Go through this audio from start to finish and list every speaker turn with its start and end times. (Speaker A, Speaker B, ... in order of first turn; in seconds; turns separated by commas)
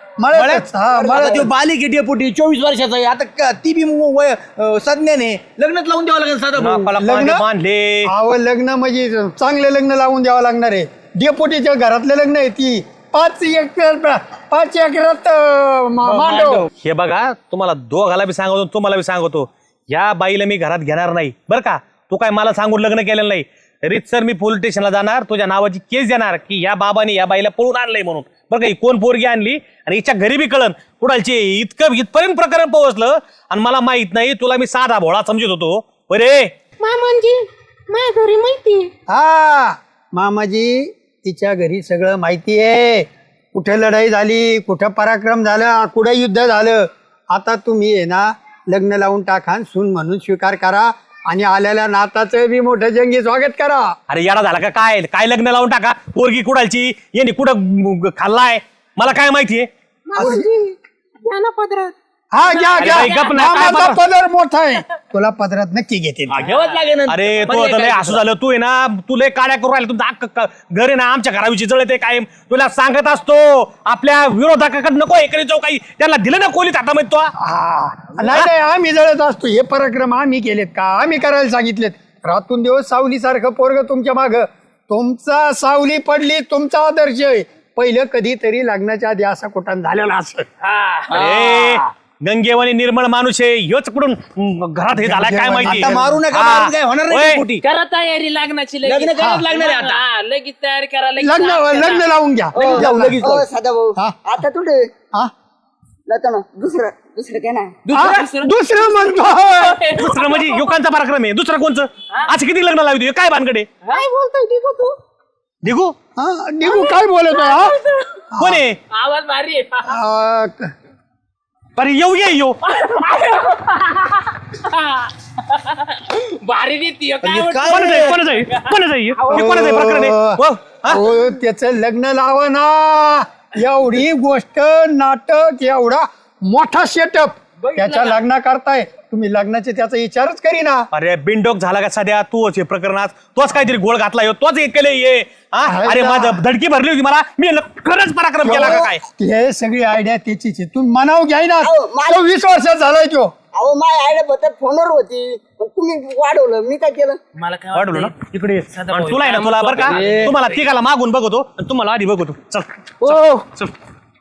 Speaker A: 0.2-1.5, Speaker B: 0.3-0.7, Speaker C: 0.9-1.5, Speaker D: 1.1-6.9, Speaker B: 6.6-8.1, Speaker A: 7.0-7.4, Speaker A: 8.0-16.7, Speaker D: 16.0-16.7, Speaker B: 16.8-36.5, Speaker E: 36.8-38.9, Speaker A: 39.1-54.0, Speaker B: 54.1-59.7, Speaker E: 60.1-63.4, Speaker A: 60.1-60.5, Speaker A: 62.3-66.5, Speaker B: 62.8-64.0, Speaker D: 66.3-68.2, Speaker F: 66.4-66.9, Speaker B: 67.1-77.3, Speaker A: 77.4-90.5, Speaker F: 90.6-91.3, Speaker D: 91.1-91.9, Speaker B: 91.1-97.4, Speaker A: 94.9-96.2, Speaker D: 95.6-97.6, Speaker F: 97.6-102.0, Speaker D: 98.8-100.0, Speaker A: 99.2-99.4, Speaker A: 101.2-103.2, Speaker D: 102.5-103.5, Speaker C: 102.5-104.9, Speaker C: 106.1-107.8, Speaker D: 107.8-108.3, Speaker F: 107.9-108.6, Speaker A: 107.9-109.8, Speaker F: 109.6-110.7, Speaker B: 109.9-113.7, Speaker E: 113.9-115.0, Speaker B: 115.6-115.9, Speaker A: 116.2-117.8, Speaker E: 116.6-117.8, Speaker A: 118.3-118.6, Speaker B: 118.4-118.8, Speaker F: 118.9-120.0, Speaker A: 119.8-120.7, Speaker B: 121.8-122.6, Speaker F: 122.6-129.9, Speaker D: 127.2-128.2, Speaker B: 127.7-131.0, Speaker A: 129.3-140.9, Speaker F: 137.6-138.2, Speaker B: 140.9-149.0, Speaker A: 145.6-146.4, Speaker A: 148.4-153.3, Speaker C: 151.6-152.2, Speaker C: 153.5-157.2, Speaker F: 157.3-158.2, Speaker B: 157.7-163.7, Speaker F: 158.7-160.6, Speaker D: 159.8-160.3, Speaker F: 163.0-163.4